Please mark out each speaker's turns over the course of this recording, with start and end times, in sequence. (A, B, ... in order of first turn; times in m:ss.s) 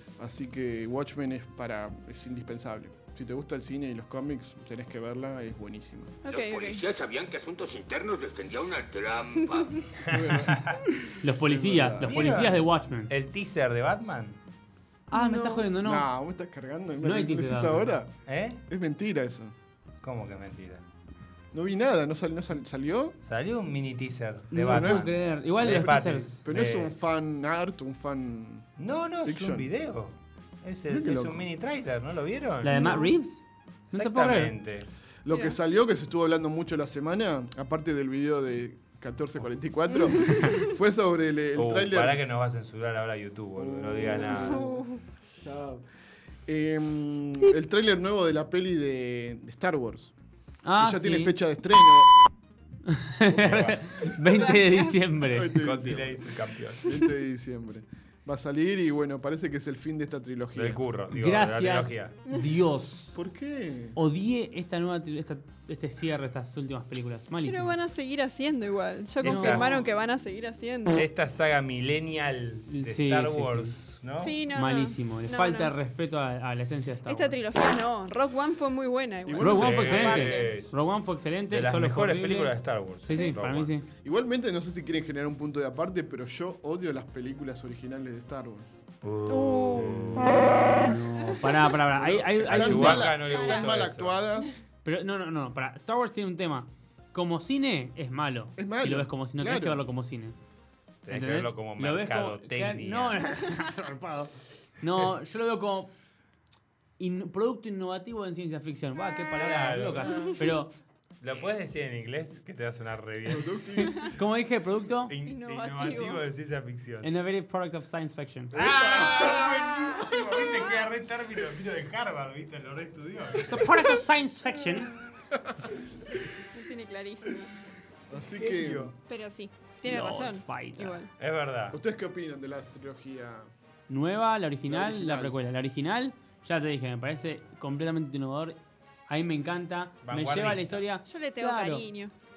0:00.2-0:06.2 A
0:06.2-0:06.8 B
0:06.2-0:09.8 C
0:10.1-0:10.8 D
0:10.1-0:12.3 A
0:11.2-0:13.1 E
0:12.0-0:14.4 D
0:15.1-0:16.1 E
0:15.1-0:15.7 B
0:15.8-0:18.2 A
0:17.0-0:18.0 E
0:18.2-0:18.6 D
0:18.7-0:19.5 A
0:20.0-0:20.8 D
0:21.5-0:23.2 A
0:23.2-0:26.9 D
0:24.5-0:26.3 E
0:24.7-0:25.0 A
0:26.4-0:28.7 A
0:28.8-0:33.0 D
0:29.2-0:29.7 A
0:30.9-0:31.4 A
0:32.6-0:34.5 E
0:32.7-0:33.1 B
0:33.9-0:34.9 D
0:35.2-0:42.2 A
0:35.3-0:35.6 B
0:40.0-0:40.7 B
0:41.6-0:44.7 D
0:43.6-0:45.8 A
0:44.3-0:45.0 B
0:46.5-0:50.1 A
0:50.6-0:51.3 E
0:50.8-0:52.1 A
0:52.8-0:55.5 E
0:53.3-0:54.5 D
0:54.5-0:54.9 B
0:55.2-1:00.8 A
0:55.4-0:56.9 D
1:00.6-1:02.1 D
1:01.1-1:03.1 E
1:03.1-1:04.0 A
1:04.0-1:07.8 E
1:07.5-1:11.0 B
1:09.2-1:09.8 E
1:09.2-1:09.9 D
1:10.9-1:14.4 D
1:12.7-1:13.7 E
1:14.2-1:15.7 B
1:14.5-1:17.4 E
1:17.0-1:20.5 B
1:19.2-1:20.0 A
1:19.4-1:20.7 D
1:19.4-1:23.9 E
1:21.5-1:23.7 D
1:24.0-1:28.7 A
1:29.0-1:30.5 D
1:29.3-1:30.3 B
1:30.7-1:33.1 E
1:31.9-1:34.6 A
1:32.4-1:34.2 D
1:33.3-1:33.7 B
1:34.8-1:40.3 E
1:38.6-1:39.8 A
1:41.0-1:43.2 D
1:41.1-1:45.9 E
1:47.0-1:50.7 E
1:49.4-1:50.4 D
1:51.2-1:54.1 D
1:53.2-1:54.1 A
1:54.1-1:55.1 E
1:55.1-1:57.1 D
1:55.2-1:56.2 B
1:57.0-1:58.5 E
1:58.5-2:00.1 A
1:58.5-2:03.7 D
1:59.2-1:59.8 B
2:03.5-2:04.9 E
2:05.3-2:05.7 A
2:06.5-2:07.5 B
2:08.1-2:08.9 A
2:08.3-2:08.9 D
2:09.1-2:11.1 B
2:09.8-2:11.0 E
2:11.2-2:11.8 D
2:11.7-2:13.5 A
2:13.9-2:21.8 E
2:14.7-2:15.4 A
2:20.0-2:20.8 D
2:21.0-2:22.1 B